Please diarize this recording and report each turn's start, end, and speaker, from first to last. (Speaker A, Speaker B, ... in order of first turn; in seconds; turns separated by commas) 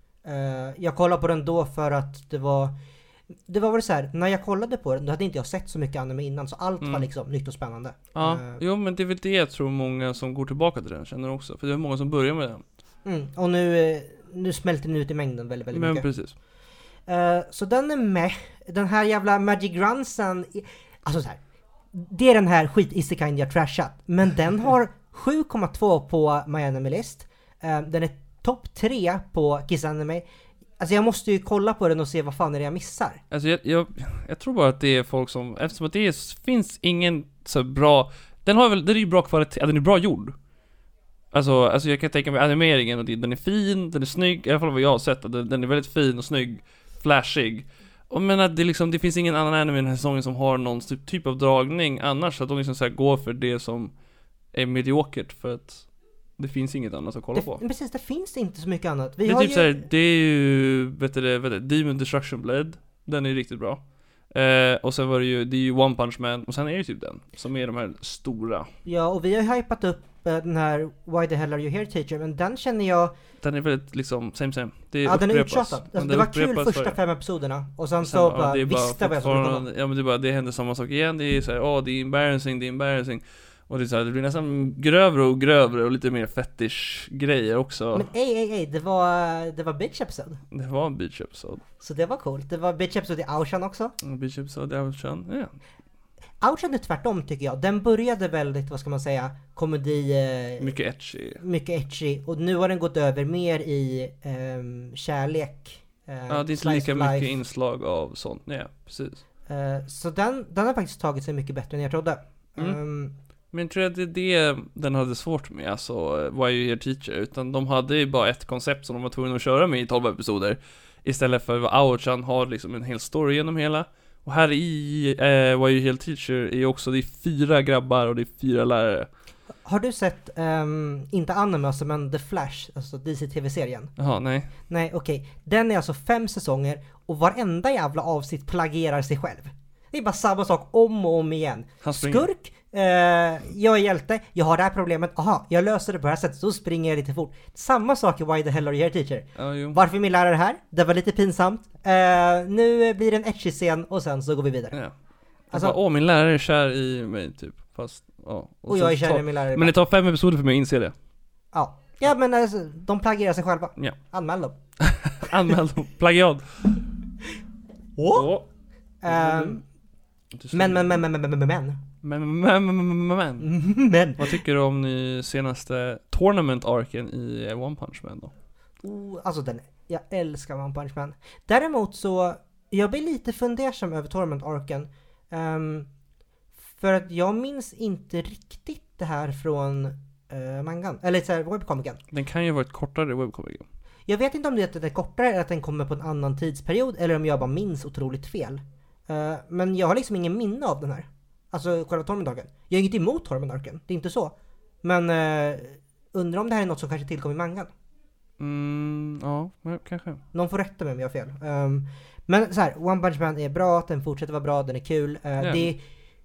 Speaker A: 0.2-2.7, Speaker A: 3.5-8.6, Speaker B: 6.8-7.1, Speaker B: 8.1-12.6, Speaker A: 13.0-16.1, Speaker B: 15.7-16.3, Speaker A: 17.1-21.4, Speaker A: 21.9-30.2, Speaker A: 30.8-33.2, Speaker B: 33.3-40.4, Speaker B: 41.3-53.9, Speaker B: 54.5-55.8, Speaker B: 56.4-57.6, Speaker A: 57.3-59.9, Speaker B: 59.2-68.7, Speaker A: 68.8-73.1, Speaker B: 73.4-77.0, Speaker A: 75.0-79.6, Speaker B: 78.0-88.1, Speaker A: 87.9-90.4, Speaker B: 90.5-91.6, Speaker A: 91.8-93.9, Speaker B: 94.0-95.5, Speaker A: 96.4-100.7, Speaker B: 100.6-101.4, Speaker A: 101.4-107.3, Speaker B: 106.3-109.2, Speaker A: 109.5-113.1, Speaker B: 113.5-129.1, Speaker A: 129.6-133.9, Speaker B: 134.0-134.5, Speaker A: 134.7-154.8, Speaker B: 141.8-142.3, Speaker B: 149.3-149.8, Speaker B: 155.5-160.9, Speaker A: 155.5-155.8, Speaker A: 158.7-159.7, Speaker A: 161.5-164.6, Speaker B: 164.8-166.8, Speaker A: 168.0-168.3, Speaker B: 168.1-168.5, Speaker A: 169.0-169.6, Speaker B: 169.1-169.6, Speaker B: 170.3-171.0, Speaker A: 170.5-171.8, Speaker B: 172.0-173.5, Speaker A: 173.4-174.4, Speaker B: 174.2-178.3, Speaker A: 178.8-185.9, Speaker A: 186.8-192.0, Speaker B: 192.1-193.7, Speaker A: 194.1-207.7, Speaker B: 208.4-210.2, Speaker A: 210.3-215.8, Speaker B: 215.4-215.7